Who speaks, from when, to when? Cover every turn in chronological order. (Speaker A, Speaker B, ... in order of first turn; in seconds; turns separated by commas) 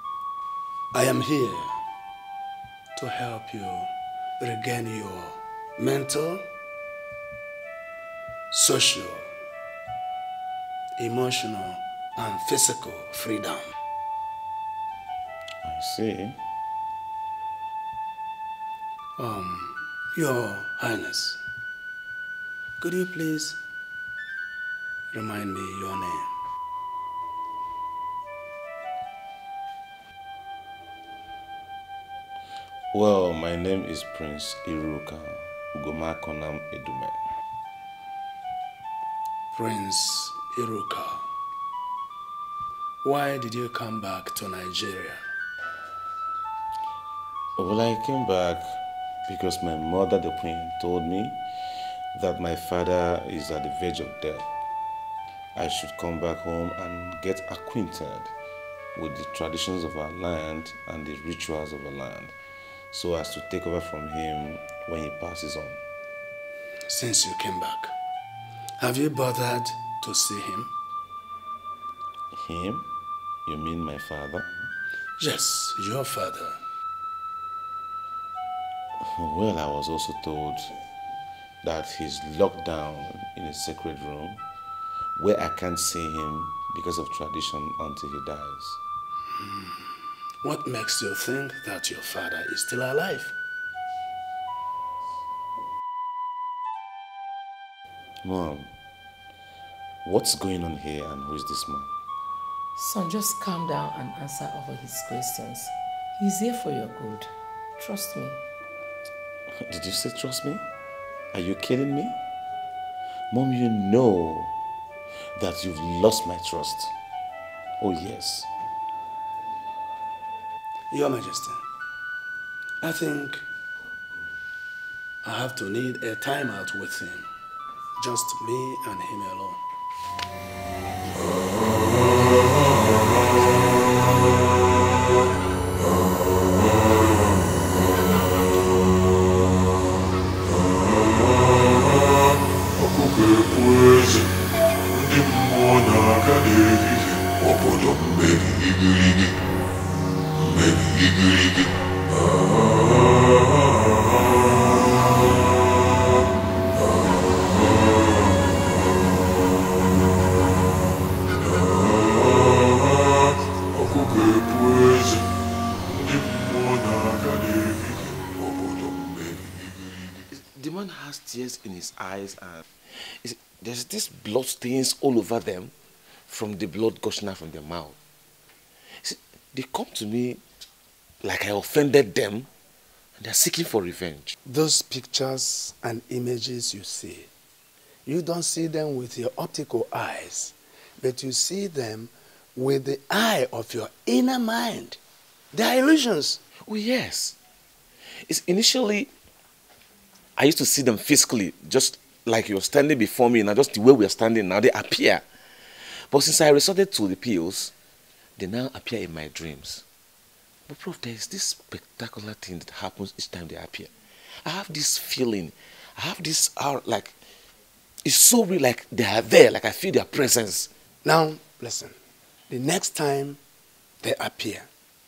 Speaker A: 0.9-1.8, Speaker A: 2.9-6.5, Speaker A: 8.5-9.3, Speaker A: 11.0-13.7, Speaker B: 15.6-16.4, Speaker A: 19.2-21.4, Speaker A: 22.8-23.6, Speaker A: 25.1-26.3, Speaker B: 32.9-37.2, Speaker A: 39.5-41.2, Speaker A: 43.0-45.2, Speaker B: 47.6-48.8, Speaker B: 49.3-51.4, Speaker B: 52.1-54.5, Speaker B: 55.5-58.3, Speaker B: 58.9-62.3, Speaker B: 62.9-65.8, Speaker A: 66.9-67.9, Speaker A: 68.8-70.7, Speaker B: 72.3-72.9, Speaker B: 73.5-74.4, Speaker A: 75.2-76.6, Speaker B: 79.0-80.7, Speaker B: 81.6-84.4, Speaker B: 85.2-88.8, Speaker A: 89.4-89.8, Speaker A: 90.4-93.3, Speaker B: 98.2-98.7, Speaker B: 100.0-101.9, Speaker C: 102.8-108.4, Speaker B: 109.6-110.6, Speaker B: 111.3-112.2, Speaker B: 113.3-114.5, Speaker B: 115.3-116.9, Speaker B: 117.8-118.5, Speaker A: 120.9-121.6, Speaker A: 122.8-123.4, Speaker A: 125.2-127.2, Speaker A: 128.0-129.6, Speaker B: 170.3-175.7, Speaker B: 176.3-178.0, Speaker B: 179.0-180.4, Speaker B: 181.2-182.5, Speaker B: 183.2-184.3, Speaker A: 184.4-187.3, Speaker A: 188.0-195.0, Speaker A: 195.5-196.4, Speaker B: 196.6-197.3, Speaker B: 198.2-199.1, Speaker B: 200.4-205.2, Speaker B: 206.1-207.7, Speaker B: 208.4-209.8, Speaker B: 210.7-213.9, Speaker B: 214.4-217.2, Speaker B: 218.0-220.7, Speaker A: 221.0-221.9, Speaker A: 222.5-223.4, Speaker A: 224.0-224.7